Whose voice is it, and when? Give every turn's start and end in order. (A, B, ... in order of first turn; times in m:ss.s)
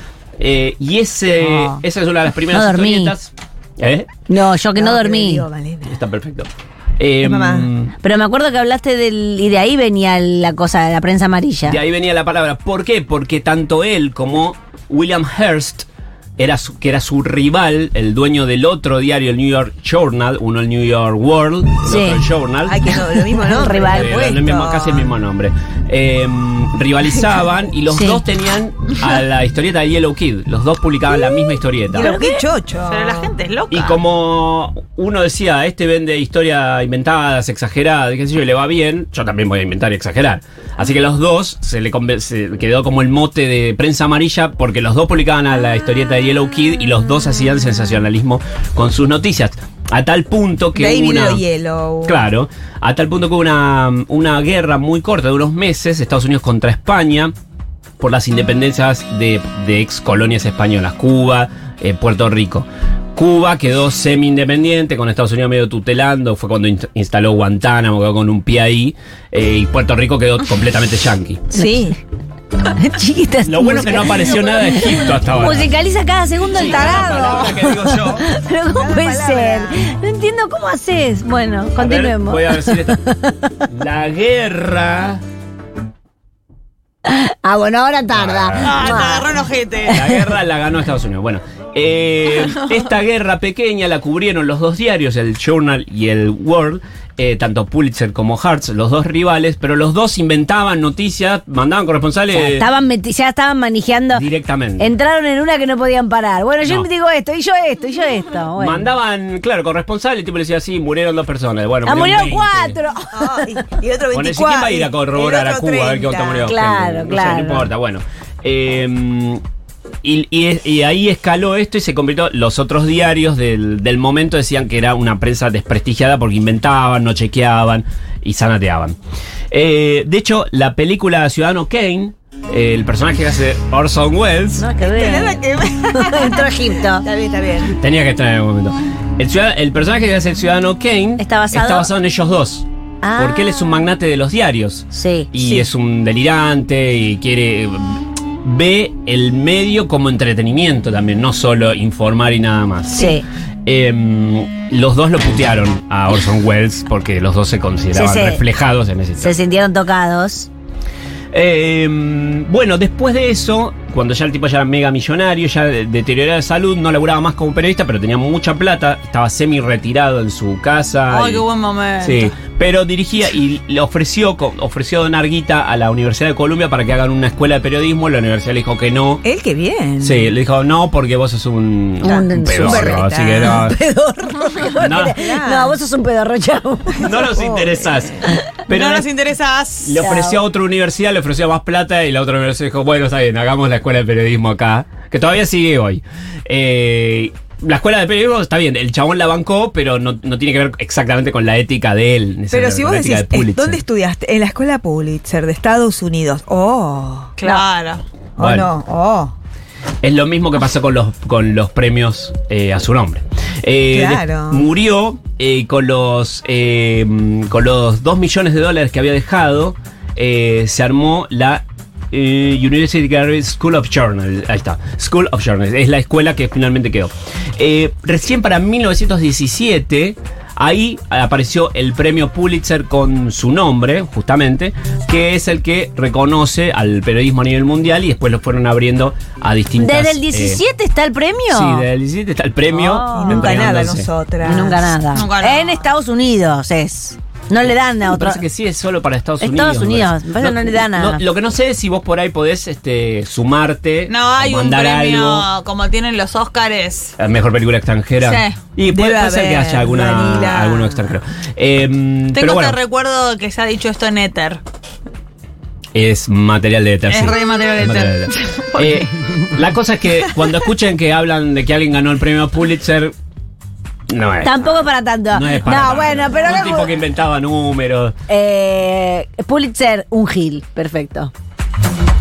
0:00.4-0:04.1 A
0:01.4-0:01.8 B
0:02.5-0:03.2 B
0:04.3-0:05.4 B
0:04.8-0:06.0 C
0:05.9-0:08.0 A
0:07.2-0:07.7 C
0:08.0-0:11.8 B
0:11.6-0:15.9 A
0:16.4-0:22.8 A
0:21.8-0:22.2 B
0:22.6-0:25.1 C
0:23.5-0:24.2 B
0:23.8-0:32.2 A
0:27.9-0:28.2 B
0:31.9-0:32.5 B
0:31.9-0:33.4 C
0:32.9-0:34.0 D
0:33.7-0:51.4 A
0:50.8-0:52.2 C
0:52.1-0:57.3 A
0:58.0-1:11.5 A
1:11.5-1:11.9 B
1:11.6-1:12.0 C
1:12.6-1:23.6 B
1:13.4-1:15.7 A
1:16.5-1:18.3 A
1:18.7-1:19.8 C
1:21.8-1:23.0 A
1:23.7-1:25.2 A
1:27.0-1:29.3 B
1:28.1-1:29.0 A
1:28.6-1:30.0 D
1:29.9-1:42.7 A
1:42.3-1:44.3 B
1:44.1-1:44.9 A
1:44.8-1:48.9 B
1:46.6-1:46.9 A
1:48.6-1:52.8 A
1:51.8-1:53.4 B
1:53.1-1:56.5 C
1:54.1-1:59.4 A
1:56.4-1:57.7 B
2:00.0-2:09.0 A
2:09.5-2:14.7 A
2:14.6-2:17.0 B
2:14.8-2:17.8 C
2:17.6-2:39.4 A
2:21.2-2:21.9 B
2:23.0-2:23.9 B
2:24.9-2:25.7 B
2:32.9-2:33.2 B
2:37.9-2:38.4 B
2:39.2-2:40.5 B
2:41.3-2:51.4 A
2:51.1-2:52.4 D
2:52.0-2:59.2 A
2:59.2-3:00.3 C
3:00.0-3:03.8 A
3:02.0-3:07.1 B
3:02.0-3:03.7 C
3:04.8-3:05.2 A
3:04.9-3:05.8 C
3:07.0-3:09.1 A
3:07.0-3:08.3 C
3:08.7-3:10.0 D
3:09.8-3:23.8 A
3:10.0-3:10.4 B
3:22.5-3:27.6 C
3:27.4-3:28.0 D
3:28.4-3:29.4 C
3:28.4-3:28.7 A
3:30.0-4:00.6 A
3:33.9-3:34.7 C
3:59.8-4:01.9 B
4:01.5-4:04.1 A
4:02.7-4:03.6 B
4:03.1-4:04.9 C
4:04.4-4:08.4 B
4:05.1-4:05.9 D
4:07.6-4:15.5 A
4:09.4-4:11.2 B
4:14.1-4:17.2 D
4:17.2-4:22.8 A
4:18.2-4:18.6 D
4:18.9-4:21.2 C
4:22.3-4:24.6 D
4:26.0-4:33.1 A
4:27.1-4:29.0 D
4:34.1-4:38.2 A
4:34.4-4:37.1 B
4:38.3-4:41.3 B